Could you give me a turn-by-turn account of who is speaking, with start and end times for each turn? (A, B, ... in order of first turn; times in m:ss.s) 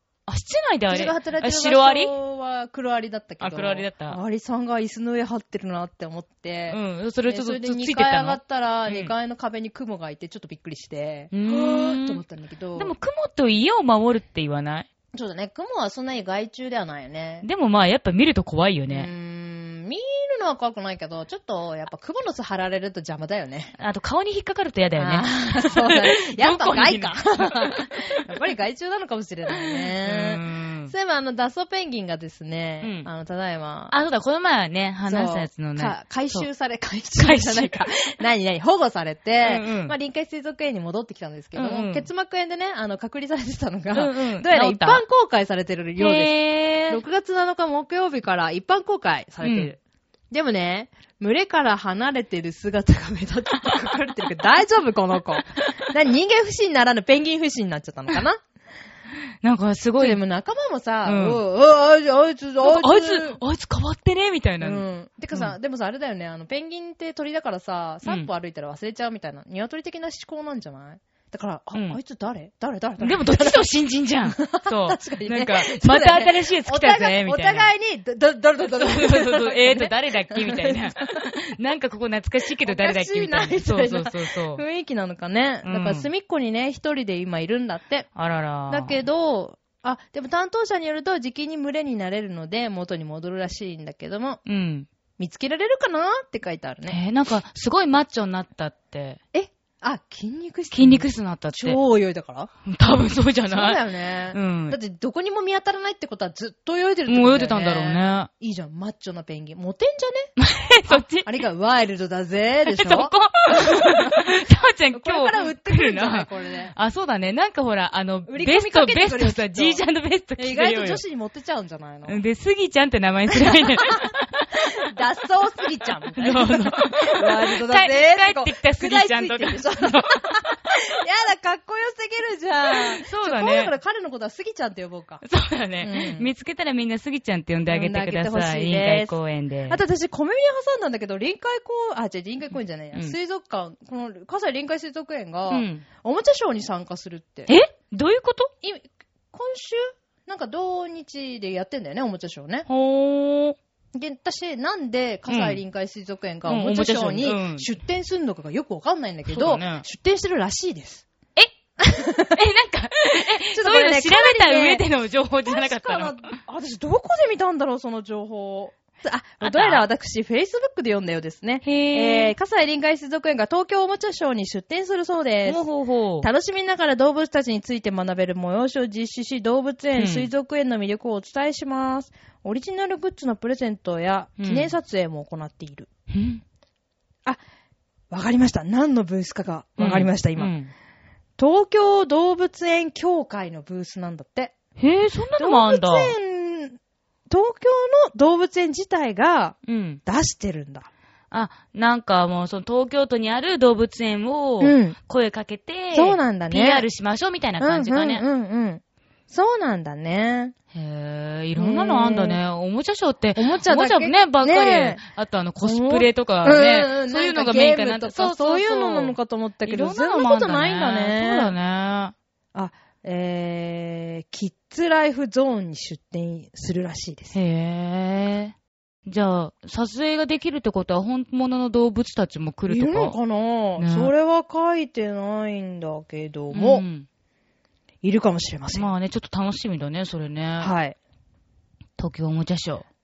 0:00.3-0:02.1 A
0:00.9-0:12.9 B
0:03.4-0:04.2 A
0:06.7-0:09.1 A
0:11.3-0:12.2 A
0:12.8-0:14.9 A
0:15.1-0:17.4 B
0:17.4-0:19.1 A
0:18.9-0:23.8 B
0:23.8-0:27.9 A
0:25.0-0:33.9 B
0:29.5-0:30.9 A
0:32.8-0:33.1 A
0:33.9-0:36.5 A
0:35.1-0:46.4 B
0:37.2-0:37.8 A
0:39.4-0:39.9 A
0:41.5-0:42.0 A
0:43.9-0:45.0 A
0:46.0-0:47.0 A
0:46.9-0:49.8 B
0:49.4-0:49.7 A
0:50.3-0:58.4 B
0:59.4-1:00.2 A
1:00.0-1:03.4 B
1:01.0-1:01.4 A
1:02.6-1:05.5 A
1:04.6-1:13.6 B
1:13.0-1:17.7 A
1:14.3-1:21.0 B
1:18.7-1:24.6 A
1:22.6-1:28.1 B
1:25.6-1:26.1 A
1:28.1-1:28.9 A
1:28.7-1:34.4 B
1:34.4-1:34.9 A
1:35.2-1:37.0 B
1:36.9-1:39.2 A
1:39.3-1:42.5 B
1:40.7-1:41.8 A
1:42.6-1:43.8 A
1:43.5-1:50.3 B
1:44.3-1:44.8 A
1:47.1-1:48.3 A
1:50.4-1:51.3 A
1:50.9-1:53.9 B
1:52.7-2:01.0 A
1:54.9-1:56.7 B
1:58.3-1:59.8 B
2:00.4-2:02.2 B
2:02.1-2:04.4 A
2:03.5-2:03.9 B
2:04.8-2:15.2 B
2:06.2-2:10.4 A
2:12.8-2:13.7 A
2:15.2-2:19.8 A
2:15.8-2:16.3 B
2:17.7-2:19.1 B
2:19.7-2:27.5 B
2:25.5-2:25.8 A
2:27.5-2:28.5 A
2:28.6-2:32.7 B
2:32.7-2:33.6 A
2:33.9-2:41.0 B
2:35.3-2:35.6 A
2:36.4-2:37.7 A
2:39.3-2:39.8 A
2:41.8-2:42.4 B
2:42.3-2:46.4 A
2:43.5-2:44.8 B
2:45.4-2:55.6 B
2:49.4-2:49.9 A
2:51.6-2:52.3 A
2:55.4-2:56.3 A
2:56.2-3:05.9 B
3:00.0-3:00.3 A
3:04.4-3:04.7 A
3:06.1-3:06.4 A
3:08.1-3:10.5 B
3:09.8-3:10.7 A
3:11.4-3:14.5 B
3:14.8-3:16.1 A
3:15.4-3:16.8 B
3:17.3-3:20.9 B
3:19.6-3:20.0 A
3:21.3-3:28.2 A
3:24.6-3:25.0 B
3:25.9-3:26.9 B
3:27.6-3:30.5 B
3:30.7-3:42.1 A
3:31.6-3:32.4 B
3:33.4-3:35.0 B
3:35.6-3:41.5 B
3:42.5-3:47.3 B
3:47.3-3:48.5 A
3:49.0-3:53.2 A
3:52.7-3:56.8 B
3:53.8-3:54.1 A
3:56.5-3:57.1 A
3:58.0-3:58.9 B
3:58.7-4:00.7 A
4:00.6-4:01.0 B
4:02.0-4:02.8 A